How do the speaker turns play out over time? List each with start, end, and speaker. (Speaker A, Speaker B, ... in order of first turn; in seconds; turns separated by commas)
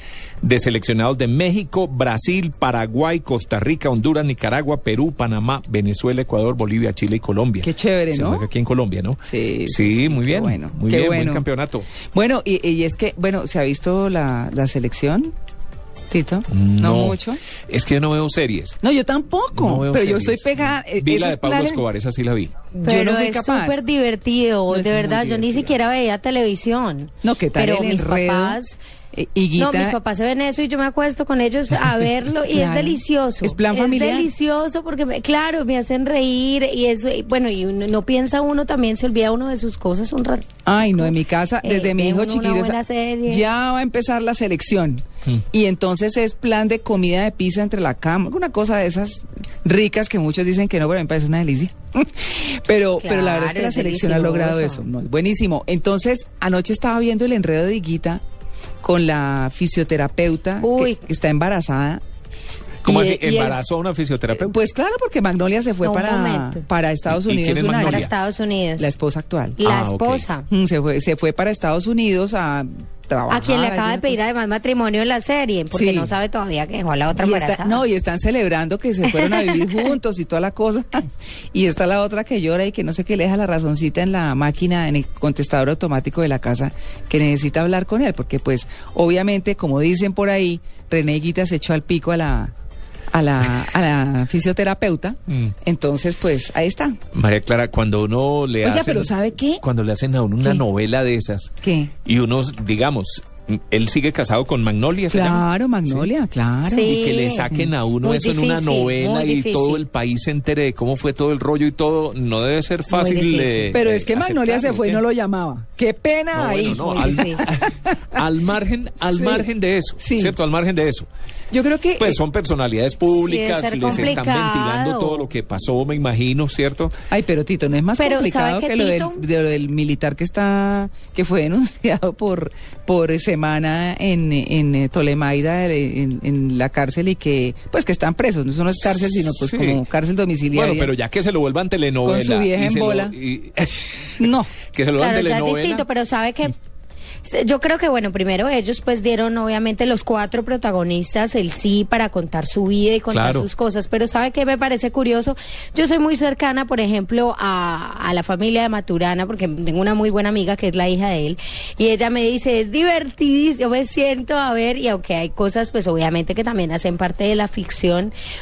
Speaker A: 0.4-11.9, Speaker B: 7.6-8.4, Speaker B: 9.2-11.4, Speaker B: 12.1-15.3, Speaker B: 16.1-17.4, Speaker A: 16.5-18.8, Speaker B: 18.8-21.8, Speaker A: 19.5-22.6, Speaker C: 22.7-28.8, Speaker B: 22.8-23.8, Speaker B: 24.7-25.7, Speaker B: 27.2-28.6, Speaker B: 29.1-30.0, Speaker C: 29.6-43.5, Speaker B: 32.5-34.3, Speaker B: 40.6-58.2, Speaker C: 53.0-54.9, Speaker B: 58.8-62.0, Speaker C: 60.6-61.0, Speaker A: 62.8-64.5, Speaker B: 62.8-63.6, Speaker B: 64.3-68.1, Speaker C: 65.8-66.6, Speaker A: 67.1-68.1, Speaker C: 67.7-68.9, Speaker B: 68.8-69.6, Speaker C: 69.6-70.5, Speaker A: 69.6-70.2, Speaker B: 70.5-74.2, Speaker C: 73.3-77.8, Speaker B: 75.7-76.1, Speaker B: 77.2-92.5, Speaker C: 79.0-79.9, Speaker B: 93.1-97.0, Speaker A: 97.1-101.5, Speaker B: 98.6-99.6, Speaker B: 101.6-101.9, Speaker A: 102.0-106.1, Speaker B: 105.1-106.9, Speaker C: 106.7-107.5, Speaker A: 106.9-115.0, Speaker C: 108.0-109.8, Speaker C: 112.9-113.8, Speaker B: 113.7-118.3, Speaker A: 116.3-121.1, Speaker C: 116.9-117.5, Speaker B: 119.1-119.5, Speaker B: 120.0-120.4, Speaker B: 121.5-122.2, Speaker A: 122.0-126.9, Speaker C: 123.1-125.3, Speaker B: 123.8-124.2, Speaker B: 127.1-140.9, Speaker C: 128.0-129.2, Speaker A: 138.9-139.8, Speaker A: 140.5-145.8, Speaker B: 142.0-143.2, Speaker B: 144.2-144.5, Speaker C: 145.0-146.5, Speaker C: 147.2-168.1, Speaker A: 153.1-153.5